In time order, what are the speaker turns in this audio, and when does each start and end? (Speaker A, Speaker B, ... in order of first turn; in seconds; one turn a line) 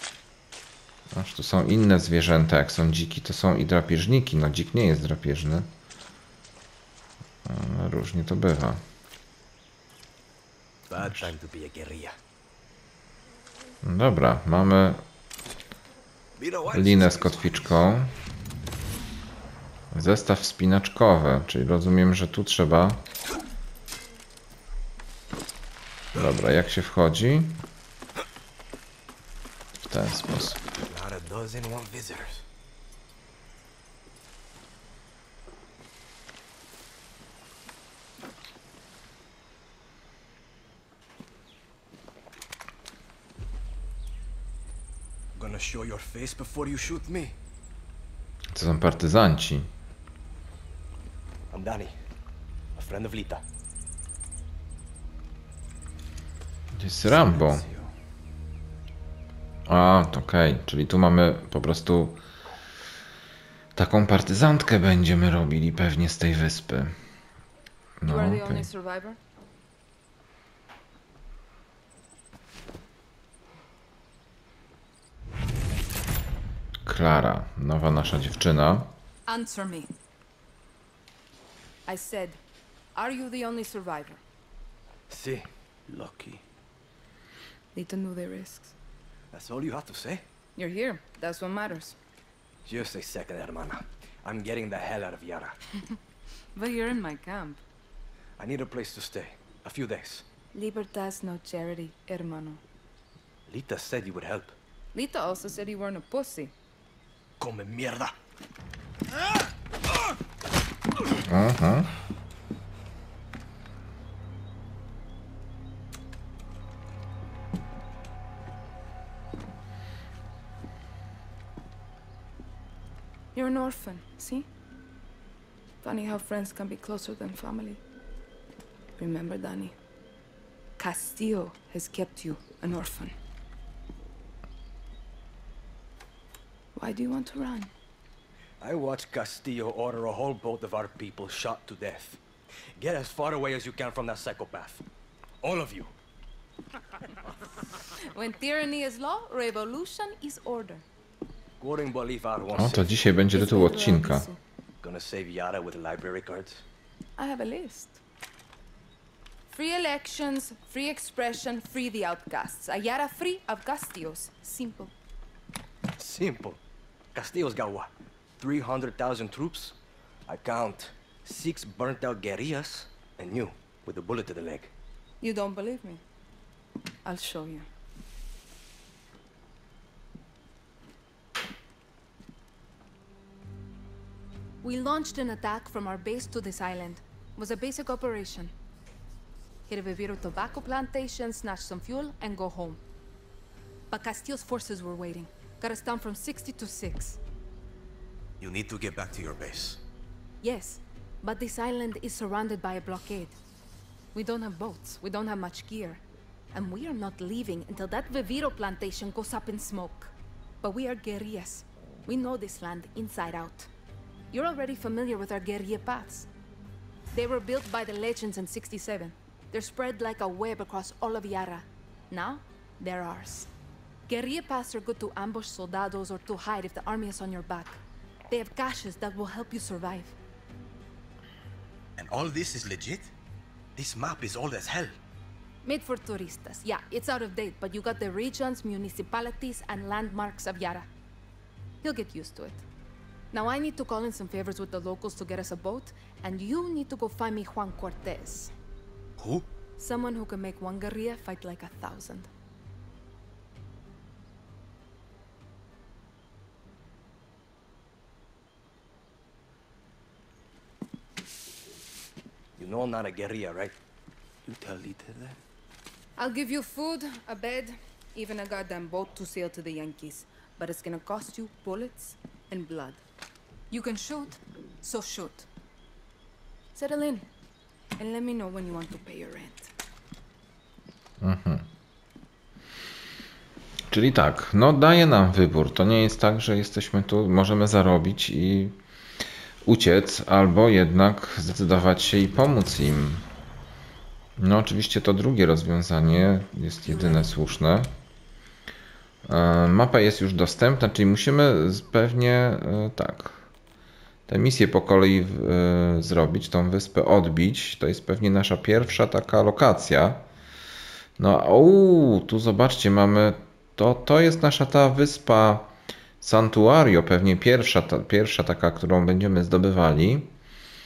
Speaker A: 1.1-5.7
Speaker A: 7.4-8.8
Speaker B: 10.9-12.2
Speaker A: 11.0-11.3
Speaker A: 13.8-15.0
Speaker B: 16.4-17.9
Speaker A: 16.7-18.1
Speaker A: 19.9-23.0
Speaker A: 26.1-27.6
Speaker A: 29.9-30.6
Speaker B: 30.8-32.4
Speaker B: 45.3-47.4
Speaker A: 48.5-49.7
Speaker B: 51.5-51.9
Speaker B: 52.8-53.4
Speaker A: 56.7-57.6
Speaker B: 57.0-57.9
Speaker A: 59.7-62.2
Speaker A: 63.8-66.9
Speaker A: 68.0-68.7
Speaker C: 68.0-69.2
Speaker A: 76.8-78.9
Speaker C: 79.3-79.9
Speaker C: 81.8-82.4
Speaker C: 82.9-84.2
Speaker B: 85.1-86.4
Speaker C: 87.7-88.7
Speaker B: 89.3-90.2
Speaker C: 90.5-92.0
Speaker B: 92.6-95.6
Speaker C: 96.5-97.6
Speaker B: 98.4-100.2
Speaker C: 100.5-102.6
Speaker B: 103.5-104.5
Speaker C: 104.9-106.5
Speaker B: 107.4-108.2
Speaker A: 111.3-111.9
Speaker C: 123.3-124.5
Speaker C: 125.8-127.8
Speaker C: 129.0-129.8
Speaker C: 130.8-133.1
Speaker C: 136.7-137.7
Speaker B: 138.6-142.2
Speaker B: 142.8-144.8
Speaker B: 145.4-145.9
Speaker C: 148.0-150.8
Speaker B: 151.6-153.1
Speaker A: 152.6-154.3
Speaker C: 153.3-154.4
Speaker B: 154.8-156.6
Speaker C: 157.2-158.0
Speaker C: 159.5-164.9
Speaker B: 165.9-166.6
Speaker B: 167.1-174.7
Speaker C: 175.2-176.0
Speaker C: 177.0-177.7
Speaker C: 184.6-188.5
Speaker C: 189.7-192.8
Speaker C: 193.9-197.2
Speaker B: 198.4-199.8
Speaker C: 200.4-203.4
Speaker C: 204.1-206.0
Speaker C: 206.5-213.7
Speaker C: 214.3-216.3
Speaker C: 217.1-223.5
Speaker C: 224.1-230.2
Speaker B: 232.0-233.1
Speaker B: 233.7-235.0
Speaker C: 235.6-240.9
Speaker C: 241.8-242.6
Speaker C: 243.3-248.5
Speaker B: 249.2-249.4
Speaker C: 249.8-252.3
Speaker B: 262.6-263.8
Speaker C: 266.2-273.0
Speaker C: 273.7-275.5
Speaker C: 276.7-277.3
Speaker C: 277.9-279.7
Speaker A: 281.2-281.6
Speaker A: 283.9-288.8
Speaker A: 289.6-293.2
Speaker A: 294.4-297.9
Speaker A: 299.3-303.4
Speaker A: 304.3-310.2
Speaker A: 311.2-320.3